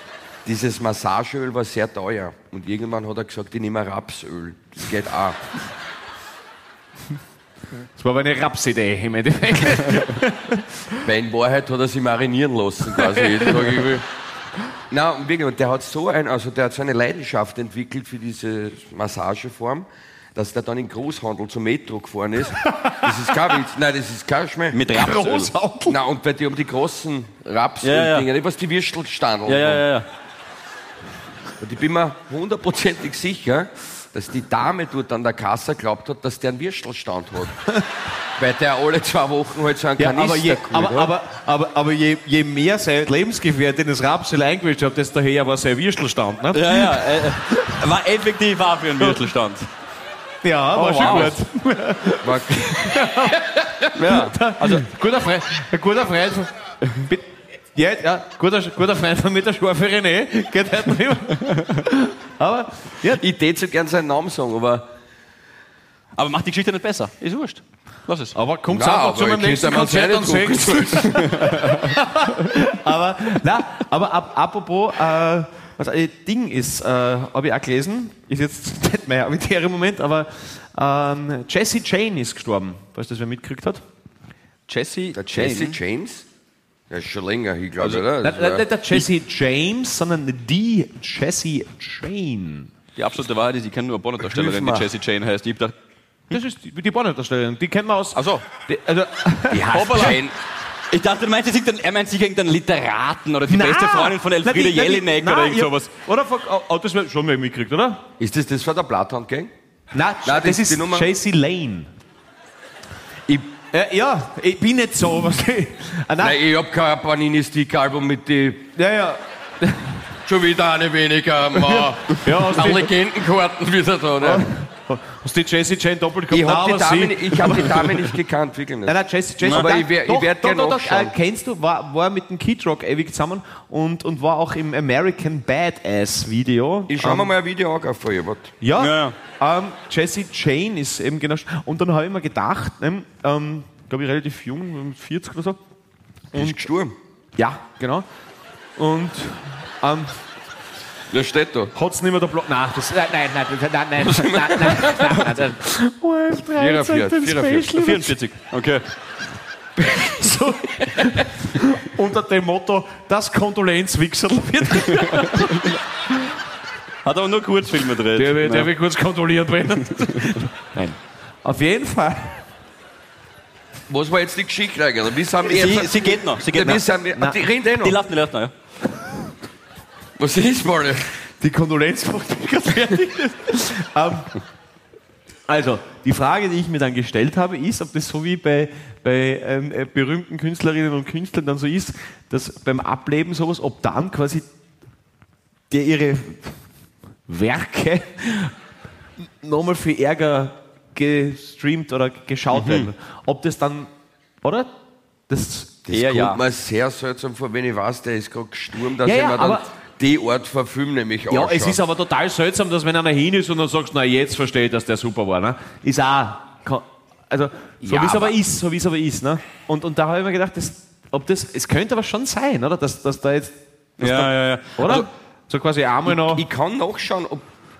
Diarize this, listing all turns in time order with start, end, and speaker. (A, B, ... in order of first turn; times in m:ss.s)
0:00.4-0:05.4 A
0:07.9-0:10.6 B
0:11.0-0:14.0 A
0:13.2-0:13.6 B
0:14.9-0:24.8 A
0:22.6-0:23.1 B
0:24.7-0:25.5 C
0:24.9-0:26.0 B
0:25.9-0:29.8 A
0:27.8-0:28.3 C
0:29.4-0:30.1 C
0:31.6-0:37.6 A
0:38.4-0:41.1 A
0:40.0-0:47.0 B
0:46.5-0:49.7 C
0:50.4-1:03.2 B
0:50.7-0:51.4 C
0:52.2-0:52.9 A
0:53.9-0:54.8 C
1:03.0-1:04.9 A
1:06.2-1:08.3 C
1:08.3-1:23.8 B
1:08.7-1:11.4 A
1:24.7-1:25.8 C
1:25.1-1:26.3 A
1:26.9-1:28.6 A
1:28.2-1:32.7 B
1:33.0-1:35.7 C
1:34.2-1:34.9 A
1:36.3-1:40.2 B
1:38.2-1:38.4 C
1:39.5-1:40.3 A
1:39.7-1:40.2 C
1:40.9-1:45.9 C
1:43.5-1:48.0 B
1:48.2-1:49.5 A
1:49.9-1:51.9 B
1:50.2-1:51.1 A
1:53.3-1:53.5 A
1:53.7-1:56.4 B
1:56.2-1:58.7 A
1:58.8-2:00.0 B
2:00.2-2:04.5 A
2:01.6-2:02.9 B
2:04.2-2:07.8 B
2:06.3-2:11.1 A
2:08.8-2:17.3 B
2:16.9-2:18.5 A
2:18.6-2:25.6 B
2:18.8-2:19.1 C
2:26.3-2:26.6 B
2:26.3-2:26.9 A
2:27.4-2:28.1 B
2:28.8-2:30.2 B
2:31.1-2:31.7 A
2:31.7-2:38.1 B
2:34.0-2:35.3 A
2:36.5-2:37.7 A
2:37.8-2:38.8 C
2:40.0-2:45.7 B
2:45.0-2:45.4 C
2:47.0-2:48.7 C
2:48.2-2:52.4 B
2:53.9-2:58.0 A
2:55.5-2:56.9 C
2:57.7-2:58.5 C
3:00.2-3:01.1 A
3:01.4-3:04.4 B
3:05.5-3:14.4 B
3:15.7-3:16.6 B
3:17.3-3:18.5 B
3:19.2-3:23.9 B
3:22.5-3:22.9 C
3:24.4-3:24.7 B
3:25.3-3:25.8 B
3:25.9-3:31.8 A
3:25.9-3:26.4 C
3:29.0-3:29.7 B
3:31.3-3:46.4 B
3:37.8-3:38.3 A
3:44.0-3:45.0 C
3:46.1-3:47.4 A